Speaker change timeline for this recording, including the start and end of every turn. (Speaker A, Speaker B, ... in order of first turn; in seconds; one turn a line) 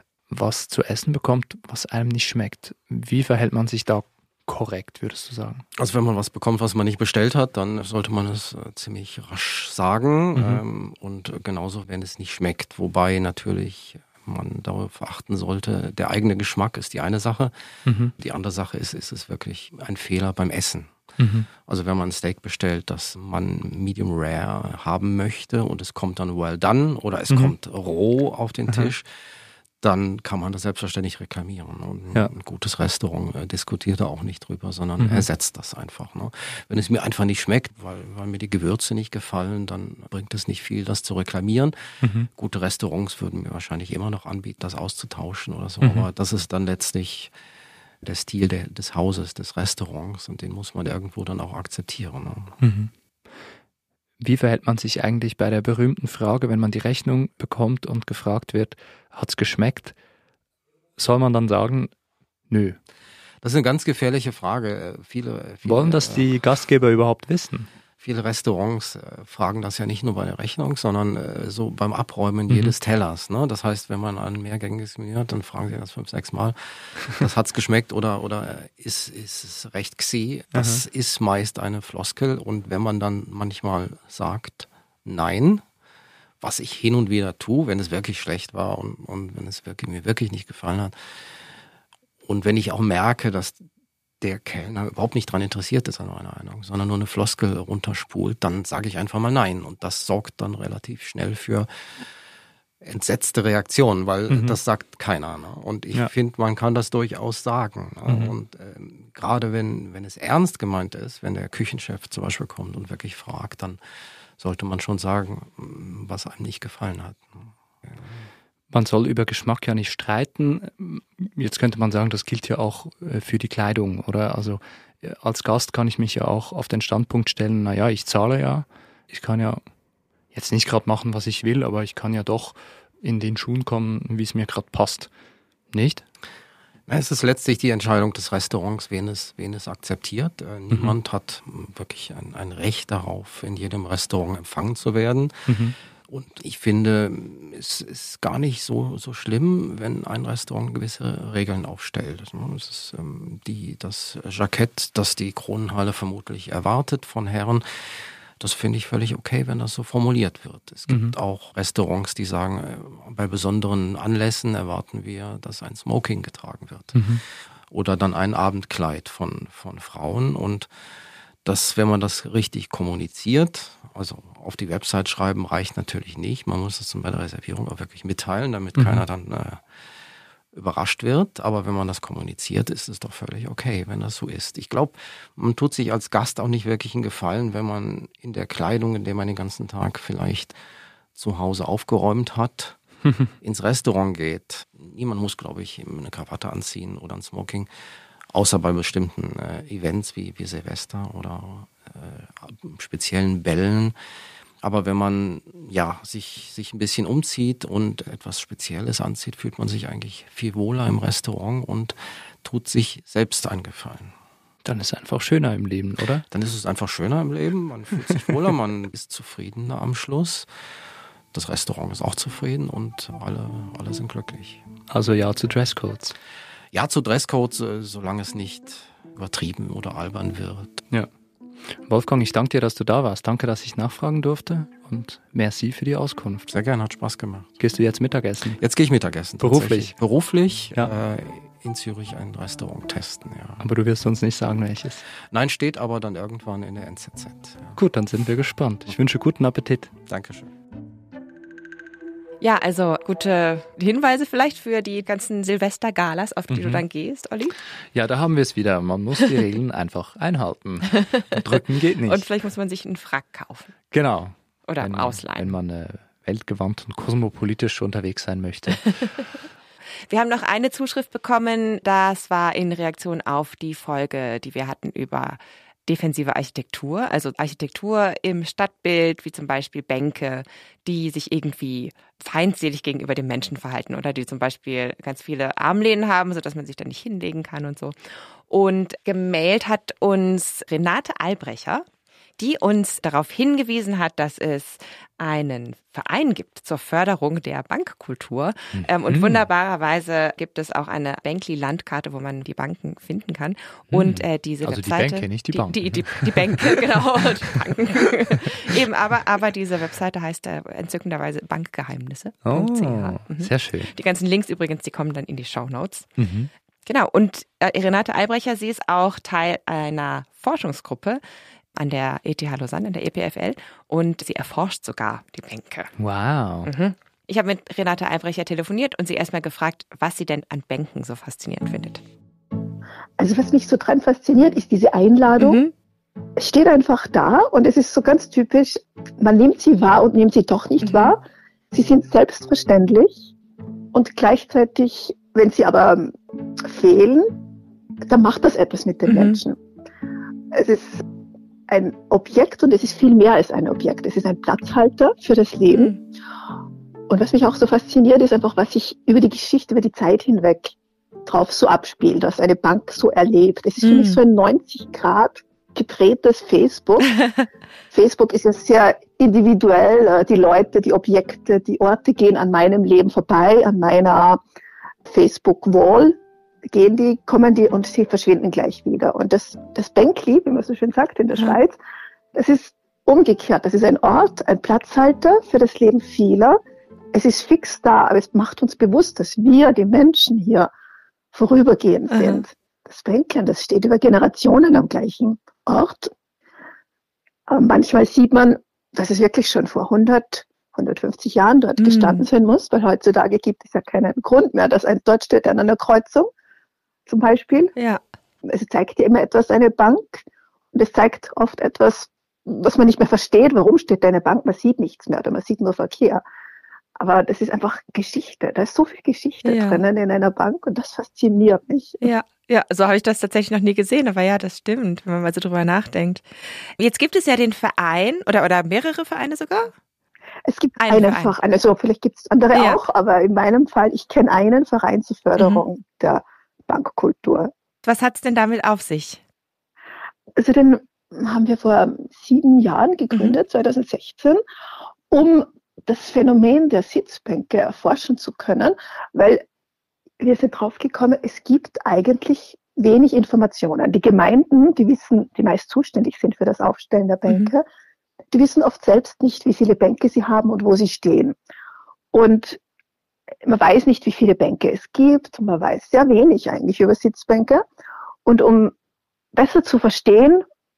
Speaker A: 0.3-5.6
Speaker B: 5.8-29.1
Speaker A: 10.4-10.6
Speaker A: 17.9-18.1
Speaker A: 21.2-21.5
Speaker A: 27.3-27.6
Speaker B: 29.8-47.3
Speaker A: 35.0-35.3
Speaker A: 42.0-42.3
Speaker A: 45.8-46.1
Speaker B: 48.0-52.6
Speaker A: 52.6-52.9
Speaker A: 54.2-60.0
Speaker A: 61.0-61.9
Speaker A: 62.5-62.8
Speaker B: 63.4-66.3
Speaker A: 65.6-67.7
Speaker B: 68.0-85.6
Speaker A: 72.5-72.8
Speaker A: 80.5-80.8
Speaker B: 86.4-90.9
Speaker B: 92.2-93.6
Speaker B: 94.2-101.7
Speaker B: 102.8-113.8
Speaker A: 104.3-104.6
Speaker A: 108.1-108.3
Speaker B: 114.4-118.2
Speaker A: 118.7-129.6
Speaker A: 130.3-135.1
Speaker A: 135.7-136.0
Speaker B: 136.9-170.7
Speaker A: 145.5-145.8
Speaker A: 160.9-161.2
Speaker A: 166.9-167.2
Speaker B: 171.4-179.6
Speaker A: 178.8-179.1
Speaker B: 180.5-190.6
Speaker B: 191.2-192.8
Speaker B: 193.3-197.7
Speaker B: 198.3-203.9
Speaker B: 204.6-214.1
Speaker A: 214.6-216.2
Speaker B: 216.3-220.5
Speaker B: 221.3-224.6
Speaker A: 224.9-226.1
Speaker B: 226.7-230.8
Speaker A: 231.8-236.5
Speaker B: 236.5-237.6
Speaker A: 237.6-238.6
Speaker B: 238.5-243.7
Speaker A: 239.4-240.0
Speaker A: 243.6-245.0
Speaker B: 245.3-247.8
Speaker A: 247.8-249.9
Speaker B: 250.1-250.5
Speaker C: 252.4-257.6
Speaker A: 256.5-256.8
Speaker A: 257.9-262.3
Speaker C: 260.9-263.7
Speaker A: 263.9-269.1
Speaker C: 264.7-265.6
Speaker C: 270.1-288.0
Speaker C: 288.5-291.9
Speaker C: 292.4-316.1
Speaker A: 298.7-299.4
Speaker A: 303.9-306.7
Speaker A: 312.4-313.9
Speaker A: 316.2-316.5
Speaker C: 316.9-321.2
Speaker C: 321.8-325.9
Speaker A: 326.0-326.7
Speaker C: 326.6-332.0
Speaker D: 333.2-335.6
Speaker C: 335.4-335.7
Speaker D: 336.4-341.2
Speaker C: 340.8-341.1
Speaker D: 341.7-343.3
Speaker D: 343.9-346.1
Speaker D: 346.6-347.3
Speaker D: 348.1-349.6
Speaker C: 349.1-349.4
Speaker D: 350.5-351.0
Speaker D: 351.7-356.0
Speaker C: 355.7-356.0
Speaker D: 357.1-360.8
Speaker D: 361.3-367.1
Speaker C: 363.8-364.2
Speaker D: 367.9-374.4
Speaker D: 375.1-381.8
Speaker D: 382.3-386.6
Speaker D: 387.1-390.7
Speaker D: 391.3-396.1
Speaker C: 392.1-392.4
Speaker D: 397.5-406.3
Speaker C: 401.8-402.2
Speaker D: 407.1-407.7
Speaker C: 407.8-408.0
Speaker D: 408.4-416.2
Speaker D: 417.0-422.1
Speaker C: 419.4-419.8
Speaker C: 422.0-426.2
Speaker C: 426.8-429.7
Speaker D: 430.5-437.5
Speaker C: 430.8-431.3
Speaker C: 432.5-432.8
Speaker C: 435.4-435.6
Speaker C: 437.8-439.2
Speaker D: 440.4-444.4
Speaker D: 445.1-449.4
Speaker D: 450.2-457.6
Speaker C: 457.3-457.5
Speaker D: 458.3-461.4
Speaker D: 462.1-462.6
Speaker D: 463.4-467.6
Speaker D: 468.3-468.7
Speaker D: 469.3-470.4